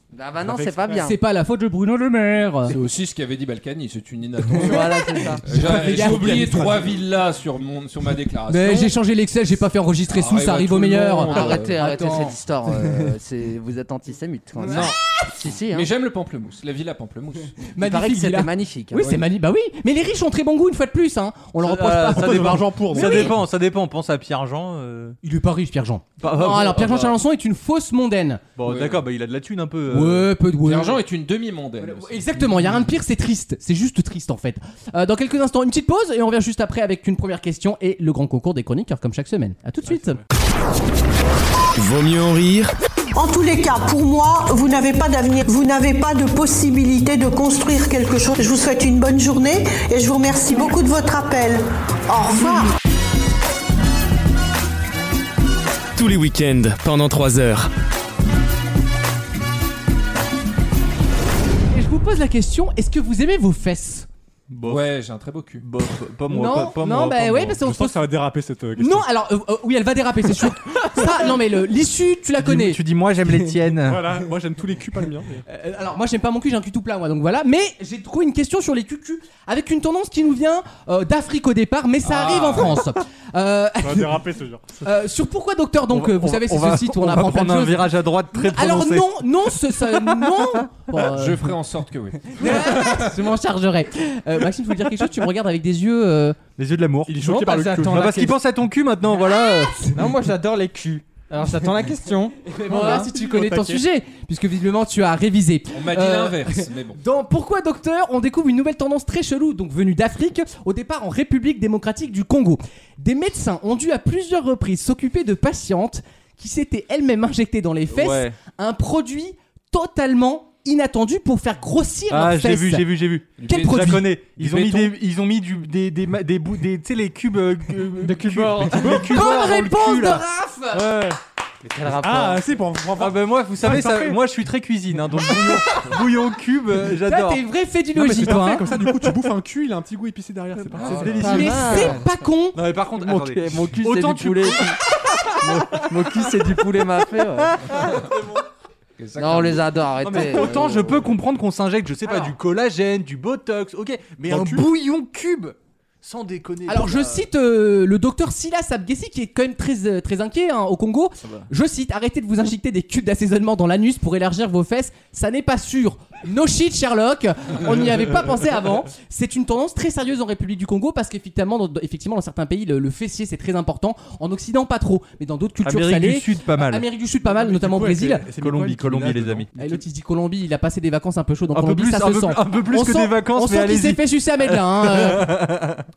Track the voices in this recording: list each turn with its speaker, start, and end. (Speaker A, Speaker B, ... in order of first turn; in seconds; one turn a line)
Speaker A: 0.1-1.2
Speaker B: 0.4-0.9
Speaker C: 0.9-2.8
Speaker D: 2.7-9.0
Speaker C: 4.5-6.7
Speaker A: 4.5-5.4
Speaker B: 5.5-7.0
Speaker C: 8.5-13.1
Speaker D: 10.1-11.8
Speaker A: 11.3-15.9
Speaker C: 14.6-15.2
Speaker D: 14.7-14.9
Speaker D: 15.7-17.6
Speaker C: 17.6-23.3
Speaker A: 17.8-19.3
Speaker E: 21.6-25.2
Speaker B: 22.1-23.4
Speaker C: 25.2-28.4
Speaker E: 26.2-27.2
Speaker E: 28.6-30.3
Speaker D: 28.7-29.0
Speaker C: 29.9-31.0
Speaker D: 30.6-32.2
Speaker C: 31.8-40.2
Speaker B: 39.9-40.2
Speaker F: 41.8-42.7
Speaker G: 43.1-52.7
Speaker F: 56.0-57.7
Speaker C: 61.7-64.1
Speaker E: 64.5-64.8
Speaker D: 64.6-65.6
Speaker E: 65.6-67.6
Speaker C: 66.3-68.1
Speaker B: 67.6-69.1
Speaker C: 68.8-72.8
Speaker E: 72.4-74.0
Speaker B: 73.8-75.4
Speaker C: 75.5-84.2
Speaker D: 82.1-82.8
Speaker B: 83.8-84.8
Speaker C: 84.8-91.5
Speaker E: 85.9-89.2
Speaker E: 89.7-90.6
Speaker D: 90.9-93.0
Speaker C: 92.4-96.4
Speaker E: 92.5-93.0
Speaker E: 96.6-99.9
Speaker B: 97.1-98.2
Speaker H: 97.3-98.4
Speaker H: 99.9-103.1
Speaker C: 102.5-124.1
Speaker B: 102.7-103.8
Speaker D: 105.7-107.0
Speaker E: 117.9-118.4
Speaker E: 122.1-131.2
Speaker D: 123.4-124.9
Speaker H: 128.0-129.2
Speaker B: 128.8-129.1
Speaker C: 129.1-130.9
Speaker A: 131.6-132.4
Speaker B: 132.0-134.2
Speaker E: 133.0-137.4
Speaker C: 137.1-138.7
Speaker B: 137.9-141.7
Speaker E: 140.7-141.9
Speaker A: 140.8-142.0
Speaker C: 141.2-142.6
Speaker H: 141.7-142.0
Speaker E: 142.5-146.7
Speaker A: 143.0-144.8
Speaker A: 145.4-147.7
Speaker E: 147.6-148.4
Speaker D: 149.0-149.8
Speaker A: 149.2-151.1
Speaker E: 150.0-157.3
Speaker B: 154.3-154.7
Speaker C: 156.7-178.2
Speaker E: 175.6-176.9
Speaker B: 177.2-179.8
Speaker E: 178.3-179.5
Speaker C: 179.6-185.4
Speaker E: 181.5-185.8